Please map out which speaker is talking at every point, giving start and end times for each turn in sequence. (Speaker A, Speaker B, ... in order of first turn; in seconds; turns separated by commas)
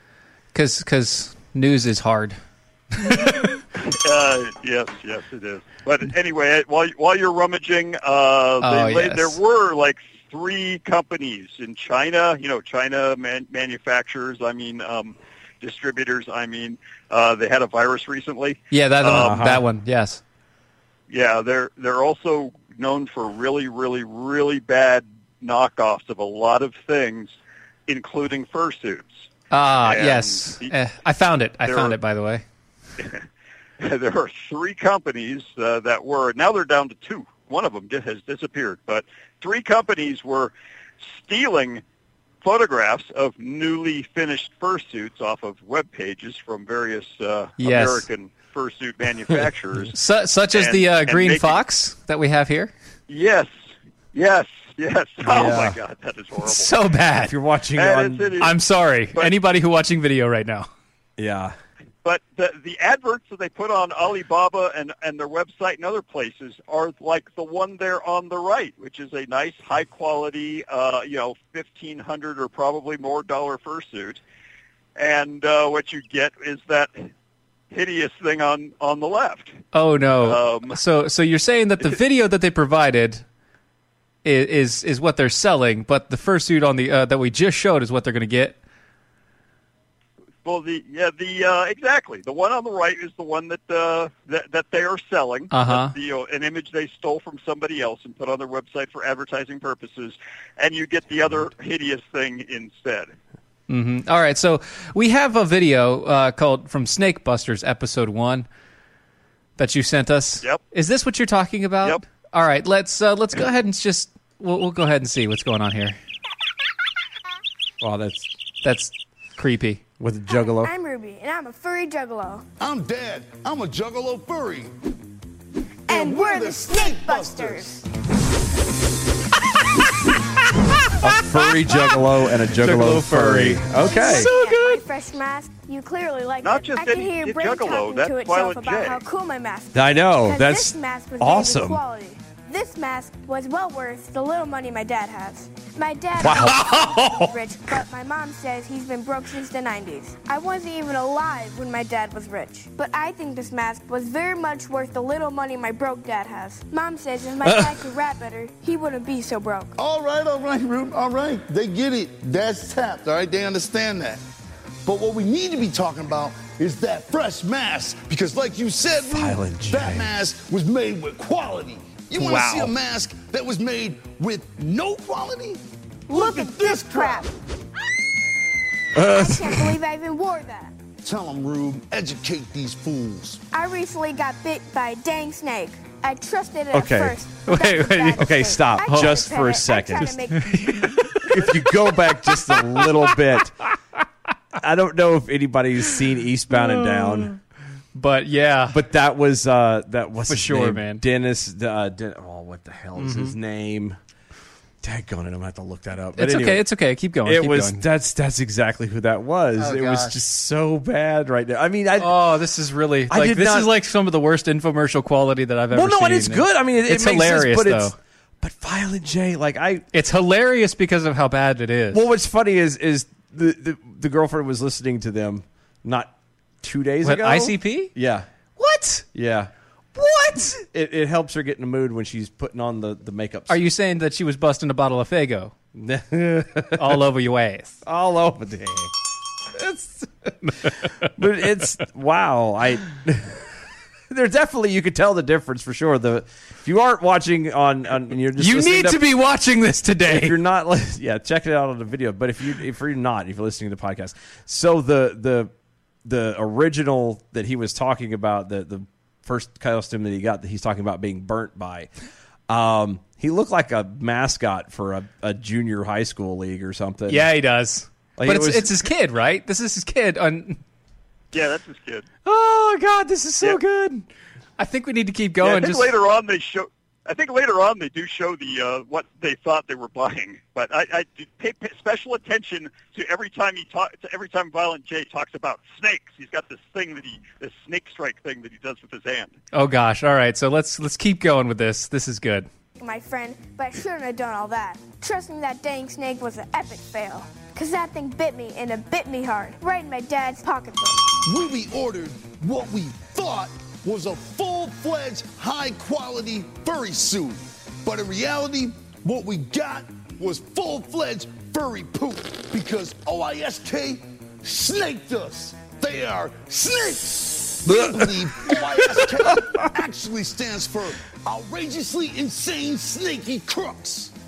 Speaker A: 0.5-2.4, Speaker A: 3.0-3.5, Speaker B: 3.8-19.4, Speaker A: 8.6-9.4, Speaker A: 18.7-20.2, Speaker C: 19.0-19.6, Speaker B: 21.1-27.4, Speaker B: 27.9-29.3, Speaker A: 29.5-32.4, Speaker B: 29.8-30.7, Speaker B: 31.6-31.9, Speaker B: 33.8-41.8, Speaker B: 42.4-50.0, Speaker A: 47.6-48.0, Speaker A: 49.9-52.7, Speaker B: 50.5-51.6, Speaker B: 53.1-53.5, Speaker B: 54.1-56.7, Speaker C: 55.2-55.8, Speaker A: 56.4-57.3, Speaker C: 57.1-58.4, Speaker B: 57.8-58.6, Speaker A: 58.4-60.7, Speaker C: 61.2-61.6, Speaker B: 62.0-74.2, Speaker B: 75.0-77.1, Speaker B: 77.7-79.6, Speaker A: 79.7-83.2, Speaker B: 80.2-80.8, Speaker A: 84.2-88.6, Speaker B: 90.4-103.1, Speaker A: 95.5-95.9, Speaker A: 103.7-108.5, Speaker A: 109.6-116.0, Speaker C: 117.8-118.3, Speaker A: 118.6-119.8, Speaker C: 120.0-120.7, Speaker D: 120.3-122.4, Speaker E: 122.6-124.7, Speaker E: 125.9-127.8, Speaker D: 125.9-127.7, Speaker A: 130.8-132.0, Speaker C: 131.0-134.4, Speaker A: 132.6-134.8, Speaker D: 133.8-159.7, Speaker B: 136.4-139.0, Speaker C: 139.7-141.8, Speaker C: 146.2-147.1, Speaker A: 146.2-147.2, Speaker C: 157.4-157.8, Speaker E: 159.8-164.2, Speaker E: 164.9-177.3, Speaker C: 169.1-170.1, Speaker A: 172.2-172.7, Speaker D: 176.1-177.3, Speaker C: 178.9-179.8, Speaker D: 179.0-180.7, Speaker E: 181.0-183.4, Speaker D: 183.5-190.9, Speaker C: 186.7-187.2, Speaker A: 187.5-189.2, Speaker C: 188.1-190.2, Speaker A: 190.4-191.5, Speaker C: 191.2-193.5, Speaker A: 192.2-193.2, Speaker C: 194.6-197.3, Speaker A: 196.5-197.3, Speaker A: 197.9-198.8, Speaker C: 198.7-204.0, Speaker A: 200.3-201.0, Speaker A: 203.0-203.4, Speaker C: 204.8-206.6, Speaker A: 206.2-207.8, Speaker C: 207.2-212.2, Speaker A: 209.6-210.2, Speaker A: 212.0-217.9, Speaker C: 213.1-213.7, Speaker C: 215.7-219.9, Speaker A: 219.9-222.0, Speaker C: 221.9-228.3, Speaker A: 227.0-227.9, Speaker A: 228.6-229.1, Speaker C: 229.1-229.5, Speaker A: 230.0-230.6, Speaker C: 230.7-233.6, Speaker A: 233.5-235.5, Speaker C: 235.7-237.0, Speaker A: 236.8-237.8, Speaker C: 237.8-238.9, Speaker C: 239.6-240.0, Speaker A: 240.4-240.9, Speaker C: 241.2-243.4, Speaker C: 244.1-249.1, Speaker A: 248.4-250.4, Speaker C: 250.0-255.5, Speaker C: 256.0-261.9, Speaker C: 262.5-267.3, Speaker A: 267.1-270.6, Speaker C: 268.2-268.9, Speaker B: 271.3-272.1, Speaker A: 272.2-274.1, Speaker A: 274.6-275.9, Speaker B: 275.4-289.3, Speaker A: 289.5-292.5, Speaker D: 292.8-301.1, Speaker E: 301.2-324.1, Speaker C: 317.6-318.5, Speaker C: 319.3-319.6